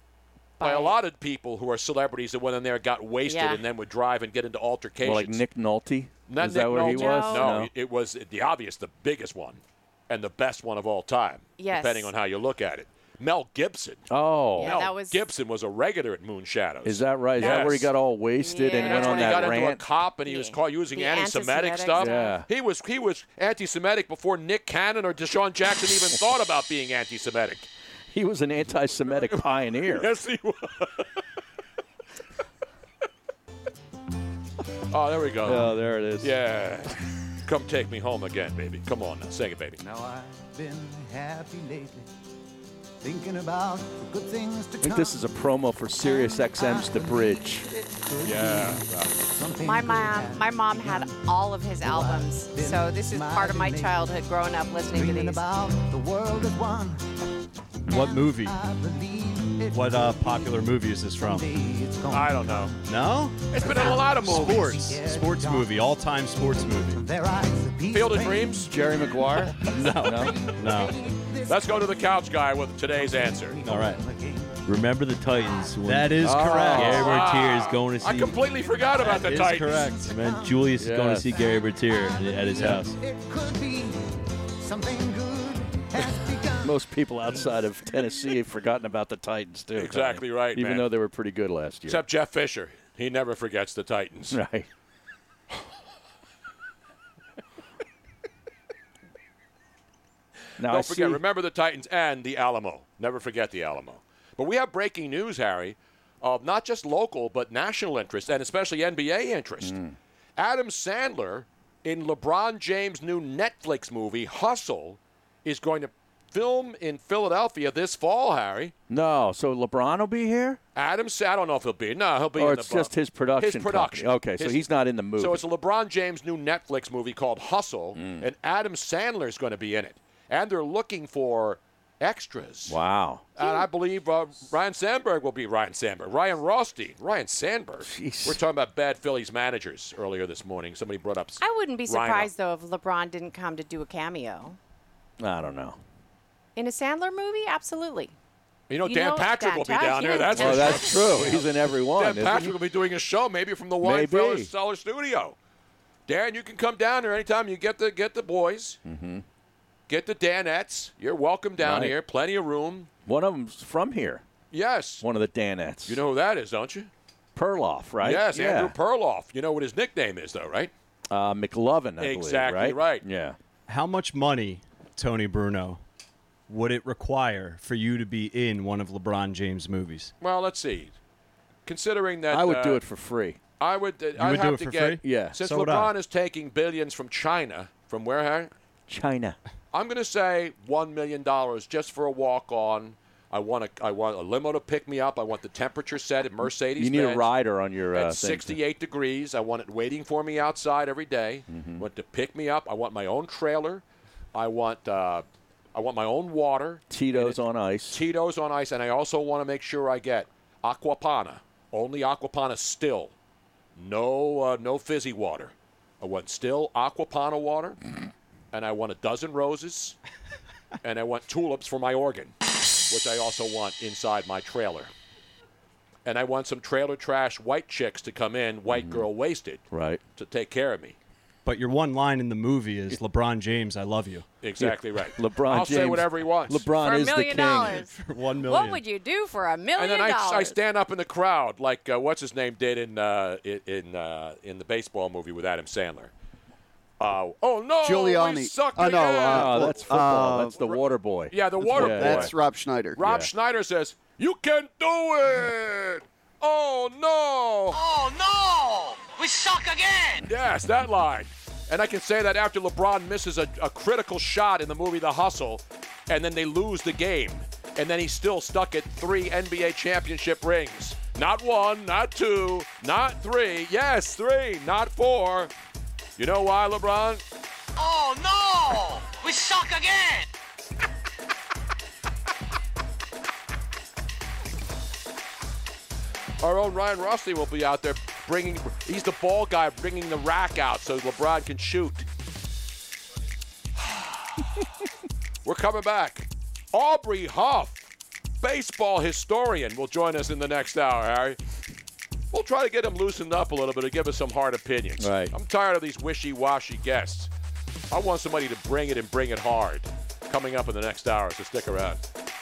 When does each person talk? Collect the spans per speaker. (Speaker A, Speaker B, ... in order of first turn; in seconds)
Speaker A: 0.6-0.9, 3.2-3.6, 6.7-7.5, 11.6-12.1, 14.6-15.3, 17.4-17.7, 18.4-19.6, 20.2-22.4, 49.6-55.4, 133.4-133.7, 141.4-144.6, 146.6-148.1, 148.8-151.4, 236.8-240.6
Speaker B: 0.6-5.4, 6.3-14.1, 14.6-17.9, 18.8-27.7, 29.1-31.2, 34.9-39.8, 48.2-49.1, 62.1-62.7, 63.5-64.8, 67.9-68.7, 71.5-73.7, 76.8-79.9, 89.8-90.9, 91.9-94.4, 100.7-109.7, 110.4-118.7, 120.7-124.7, 125.2-132.8, 133.3-142.3, 148.7-155.3, 156.1-158.8, 159.9-162.9, 164.5-165.0, 165.9-166.9, 168.0-170.7, 172.0-173.0, 180.2-180.9, 181.7-182.8, 183.6-188.5, 189.7-197.3, 197.9-203.8, 204.3-213.1, 213.8-217.8, 218.5-219.9, 220.8-222.3, 222.9-224.9, 226.0-231.0, 234.4-236.7, 239.8-246.1, 247.0-249.8, 251.3-252.3, 252.9-257.8, 260.2-275.5, 276.2-277.2, 286.4-292.1, 293.8-294.4, 295.4-297.9, 298.4-301.4, 302.3-307.3, 307.9-312.0
Speaker C: 5.0-7.7, 14.1-14.8, 16.8-19.8, 21.9-22.5, 28.1-30.1, 35.4-36.3, 44.8-47.7, 68.7-70.3, 76.2-77.1, 80.8-81.3, 86.6-92.0, 94.3-94.7, 100.6-101.2, 109.6-110.0, 118.9-120.6, 122.4-125.4, 127.9-128.2, 132.7-133.2, 137.8-138.4, 145.2-145.8, 150.3-152.5, 153.8-154.5, 158.8-159.2, 161.6-161.9, 163.1-164.2, 165.0-166.0, 167.3-168.7, 171.1-173.4, 182.3-183.4, 185.0-185.4, 188.9-189.4, 196.8-198.6, 201.5-201.8, 206.9-208.0, 228.7-229.1, 229.7-230.0, 234.6-237.9, 249.2-252.3, 253.0-253.3, 305.0-305.3
Speaker D: 39.8-42.1, 43.0-45.3, 46.0-54.1, 54.9-57.0, 57.9-62.9, 63.6-65.9, 66.9-72.1, 72.9-74.6, 75.4-75.7, 78.8-84.0, 84.6-88.1
Speaker E: 57.9-58.6, 59.7-61.5, 62.8-67.0, 69.7-70.9, 73.6-74.0, 75.8-77.2, 79.3-79.9, 82.5-82.8, 173.7-175.8, 176.5-180.1, 184.2-185.9, 231.4-234.2, 237.8-238.8
Speaker F: 74.6-78.4, 79.8-82.9
Speaker G: 247.8-250.7, 251.6-253.0
Speaker H: 258.9-259.9, 278.0-278.6, 279.1-280.2